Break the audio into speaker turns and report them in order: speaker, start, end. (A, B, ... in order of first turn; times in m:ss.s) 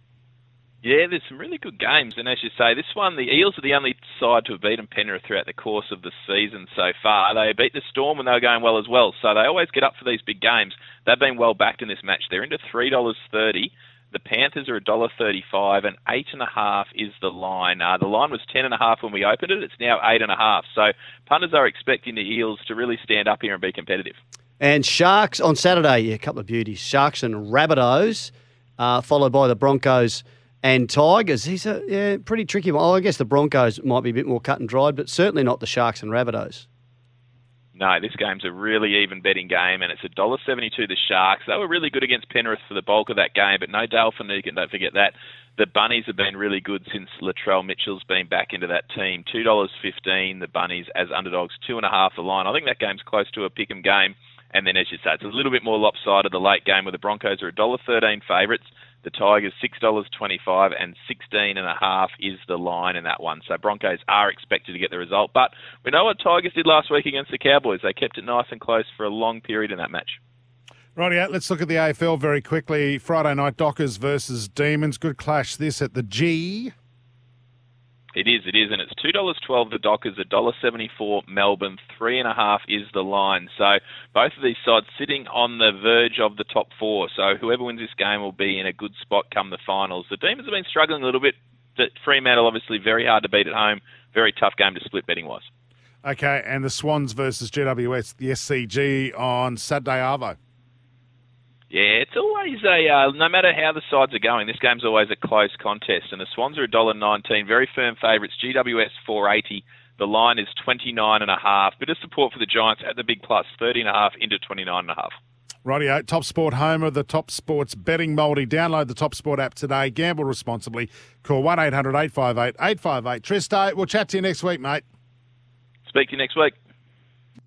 0:00.8-0:24.2 A
0:24.6-0:36.6 B
0:37.7-1:10.2 A
1:11.0-1:16.7 C
1:18.1-1:35.5 A
1:36.0-1:40.4 C
1:41.7-1:55.1 A
1:55.6-2:04.8 C
2:05.8-2:06.6 A